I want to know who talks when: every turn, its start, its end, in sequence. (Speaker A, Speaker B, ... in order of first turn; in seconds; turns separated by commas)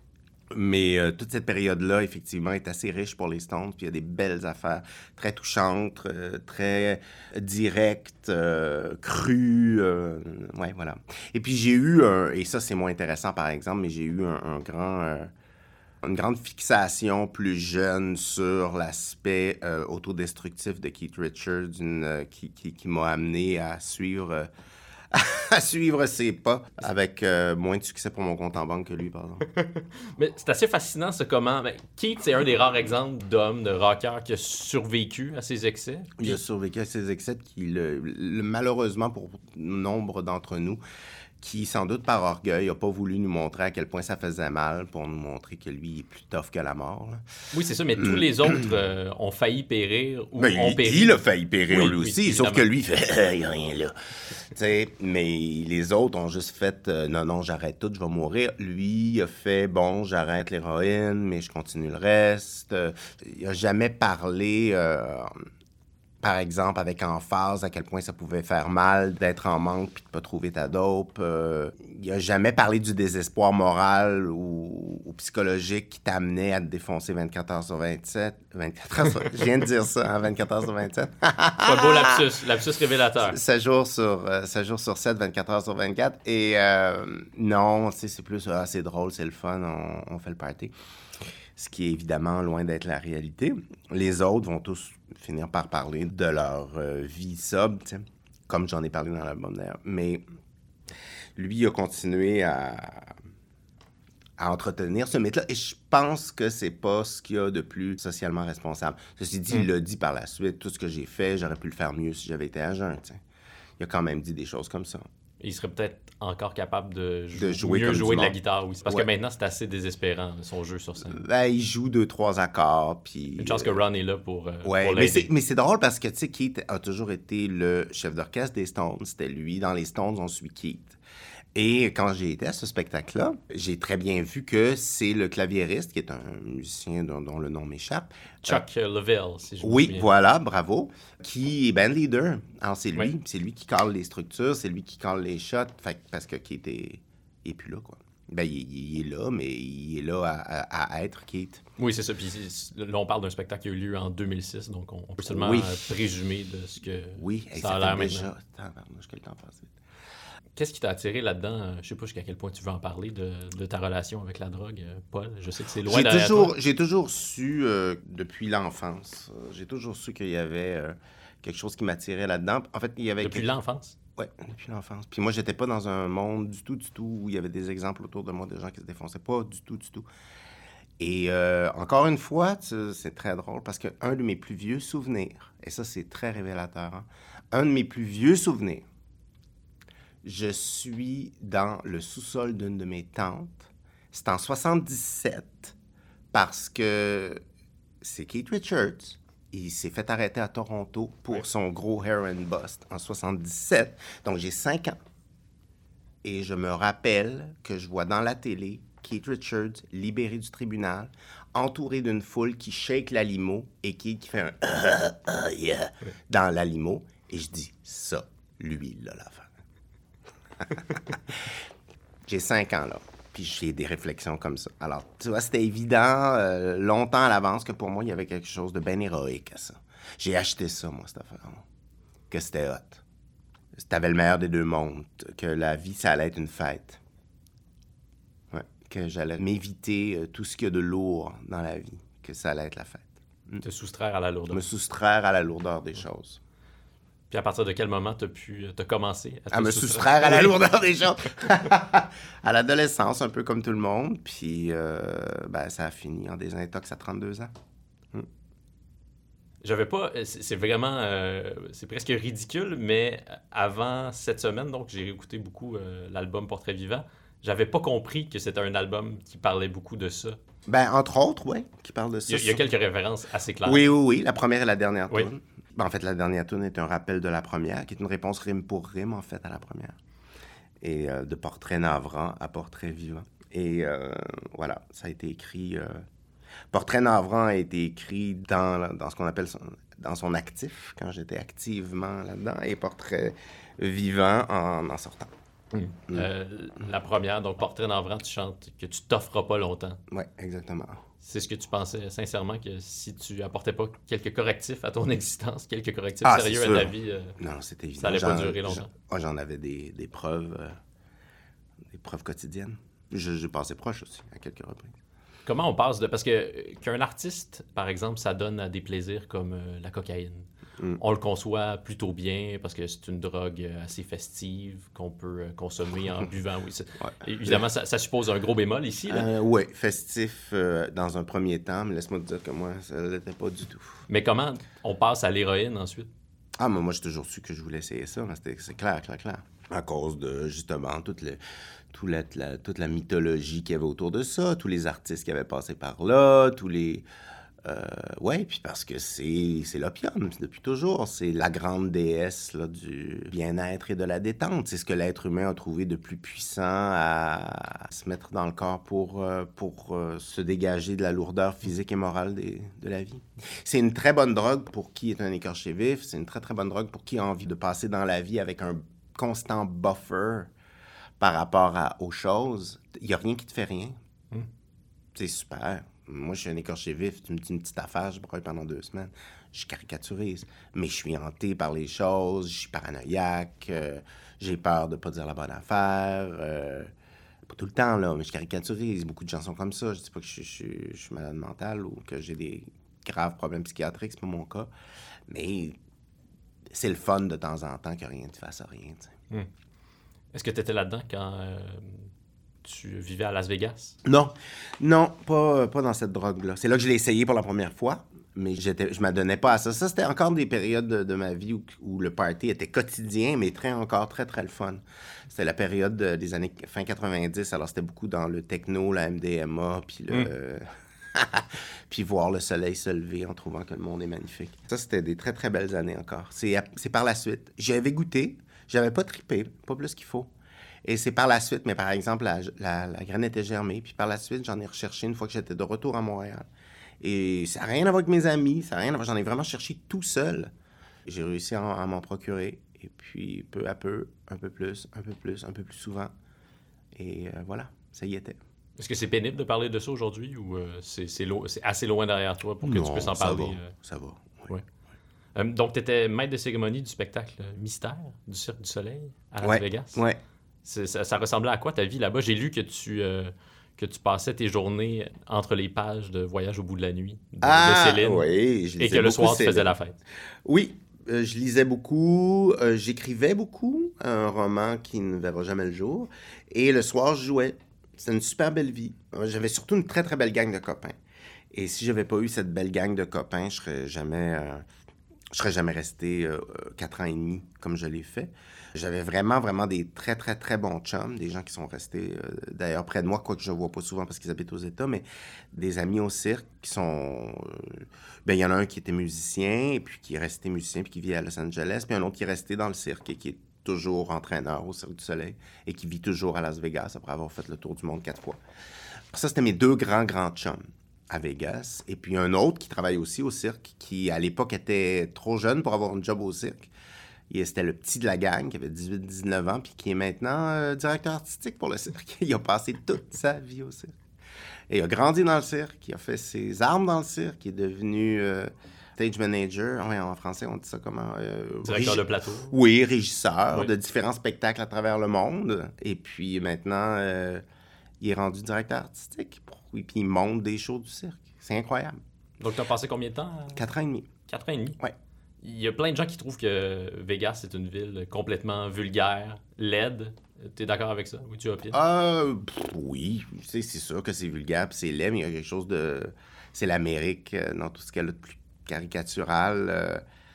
Speaker A: 0.5-15.3, Speaker A: 16.0-24.5, Speaker A: 25.1-29.4, Speaker B: 29.6-36.4, Speaker A: 36.2-40.8, Speaker A: 41.4-47.2, Speaker B: 47.5-52.6, Speaker A: 48.0-48.7, Speaker A: 50.4-65.3, Speaker A: 66.2-82.2, Speaker B: 81.6-83.4, Speaker A: 83.2-90.7, Speaker A: 91.5-100.2, Speaker A: 101.3-103.2, Speaker A: 104.4-113.2, Speaker A: 113.8-115.0, Speaker B: 115.4-121.2, Speaker A: 117.3-119.1, Speaker A: 121.0-123.8, Speaker B: 123.4-125.3, Speaker A: 124.6-131.0, Speaker A: 131.5-138.6, Speaker B: 138.4-140.1, Speaker A: 139.6-151.6, Speaker B: 151.8-158.3, Speaker A: 155.2-155.8, Speaker A: 157.2-159.7, Speaker B: 160.6-166.5, Speaker A: 165.8-173.5, Speaker B: 173.2-173.9, Speaker A: 174.2-180.1, Speaker A: 181.0-188.8, Speaker A: 190.2-195.7, Speaker A: 196.3-197.4, Speaker A: 198.0-205.0, Speaker A: 206.2-219.5, Speaker A: 220.6-221.6, Speaker A: 222.2-231.6, Speaker A: 232.3-233.0, Speaker A: 233.8-237.0, Speaker A: 238.5-243.6, Speaker B: 243.6-244.6, Speaker A: 244.5-246.4, Speaker B: 247.3-250.6, Speaker A: 249.5-257.5, Speaker B: 259.6-270.4, Speaker A: 270.7-272.6, Speaker B: 272.3-273.9, Speaker A: 273.6-279.9, Speaker A: 280.8-286.0, Speaker A: 286.7-295.3, Speaker B: 295.7-300.0, Speaker A: 300.1-301.0, Speaker B: 301.2-307.4, Speaker A: 306.2-310.8, Speaker B: 308.0-308.9, Speaker A: 311.9-314.9, Speaker B: 315.4-329.3, Speaker A: 327.0-327.6, Speaker A: 329.1-334.0, Speaker B: 334.1-336.1, Speaker A: 336.6-341.4, Speaker A: 341.9-347.1, Speaker A: 347.6-370.5, Speaker A: 371.2-373.9, Speaker A: 375.1-386.9, Speaker A: 387.5-394.7, Speaker A: 395.3-395.8, Speaker A: 396.7-399.1, Speaker B: 400.3-402.1, Speaker B: 402.6-404.0, Speaker A: 404.0-430.3, Speaker A: 430.8-436.5, Speaker A: 437.0-440.5, Speaker A: 441.0-446.1, Speaker A: 446.9-448.4, Speaker B: 448.8-453.7, Speaker A: 452.6-454.5, Speaker B: 455.3-460.0, Speaker A: 459.4-460.2, Speaker B: 460.6-468.3, Speaker A: 467.4-469.7, Speaker B: 468.8-470.0, Speaker A: 470.4-480.9, Speaker A: 481.5-484.6, Speaker A: 485.3-508.4, Speaker A: 509.1-516.7, Speaker A: 517.3-523.9, Speaker A: 524.7-537.4, Speaker B: 531.6-532.5, Speaker A: 538.0-542.0, Speaker B: 542.4-543.6, Speaker A: 543.5-544.1, Speaker B: 544.3-544.8, Speaker B: 545.4-551.8, Speaker A: 551.7-560.0